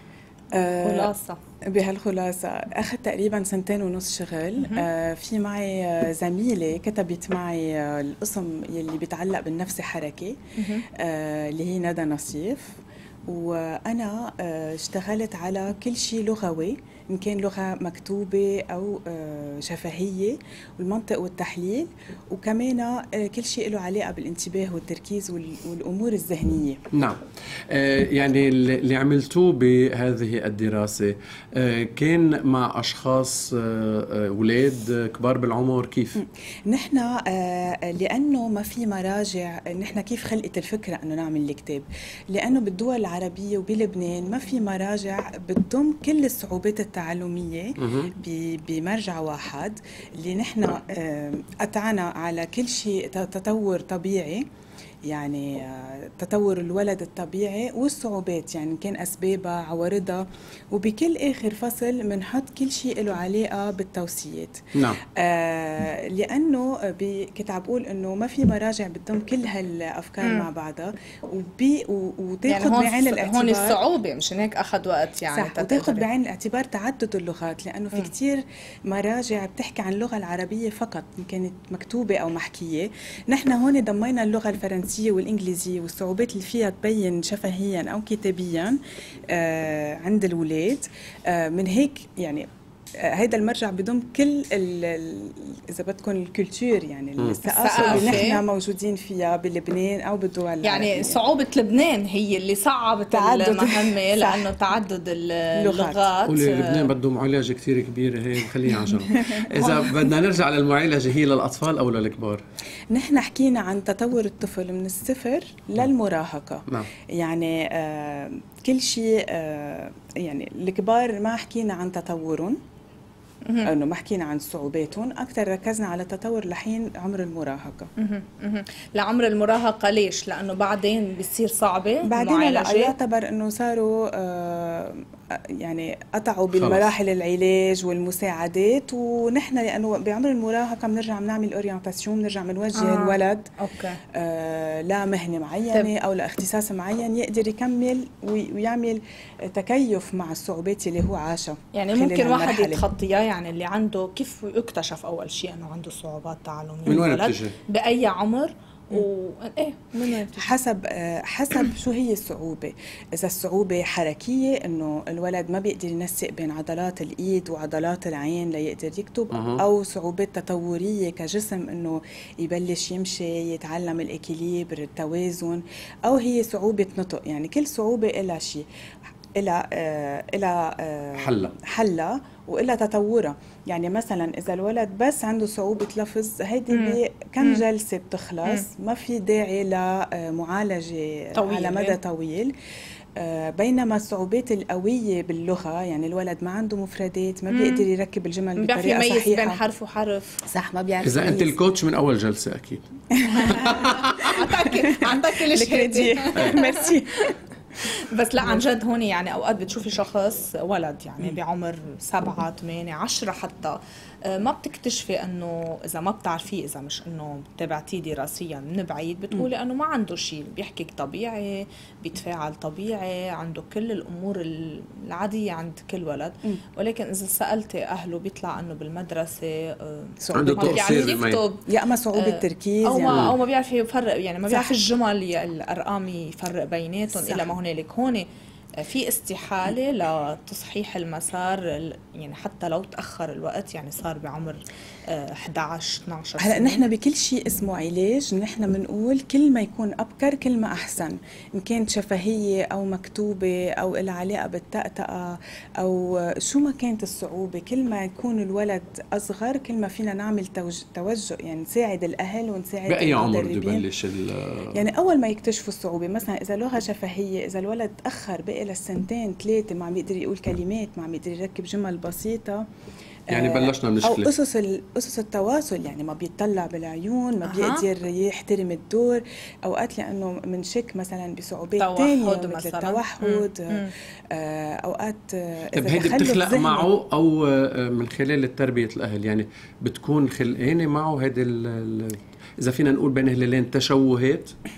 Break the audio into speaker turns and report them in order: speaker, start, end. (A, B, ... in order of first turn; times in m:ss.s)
0:00.5-0:01.1 A
0:00.8-0:01.4 B
0:01.7-0:10.4 A
0:04.6-0:04.9 B
0:10.6-0:10.8 B
0:11.0-0:26.8 A
0:27.7-0:36.2 C
0:36.2-0:54.4 A
0:47.8-0:48.1 C
0:55.1-1:04.6 A
1:04.8-1:05.0 C
1:05.2-1:13.8 A
1:10.2-1:10.5 B
1:12.5-1:16.1 B
1:15.3-1:28.8 A
1:29.3-1:32.5 A
1:33.0-1:41.2 A
1:37.2-1:38.2 C
1:37.5-1:38.4 B
1:40.6-1:46.9 B
1:43.1-1:44.5 A
1:45.6-1:46.1 A
1:46.2-1:52.4 C
1:49.2-1:50.0 A
1:52.9-2:02.6 A
2:03.6-2:07.9 A
2:08.0-2:12.9 B
2:12.1-2:15.0 A
2:15.6-2:23.5 A
2:16.5-2:16.9 C
2:22.8-2:24.0 B
2:24.1-2:32.8 A
2:31.7-2:40.5 B
2:36.9-2:37.6 C
2:40.3-2:58.6 A
2:49.3-2:49.6 C
2:59.4-3:12.5 A
3:01.2-3:01.6 C
3:06.7-3:07.6 B
3:11.4-3:12.0 B
3:13.2-3:19.6 A
3:17.5-3:17.8 B
3:18.6-3:20.4 B
3:20.5-3:21.5 A
3:21.0-3:22.8 C
3:23.2-3:23.6 A
3:23.3-3:26.9 B
3:23.4-3:24.3 C
3:25.0-3:27.3 A
3:26.3-3:26.6 C
3:27.9-3:58.3 B
3:50.2-3:51.0 A
3:50.3-3:51.4 C
3:51.7-3:53.3 A
3:53.1-3:53.3 C
3:54.5-3:54.8 A
3:57.2-3:57.5 A
3:58.8-4:06.8 B
4:06.4-4:23.9 A
4:22.9-4:24.8 C
4:24.7-4:32.6 A
4:33.3-4:46.9 A
4:33.3-4:34.3 C
4:37.5-4:37.8 B
4:41.8-4:43.9 B
4:45.8-4:54.5 C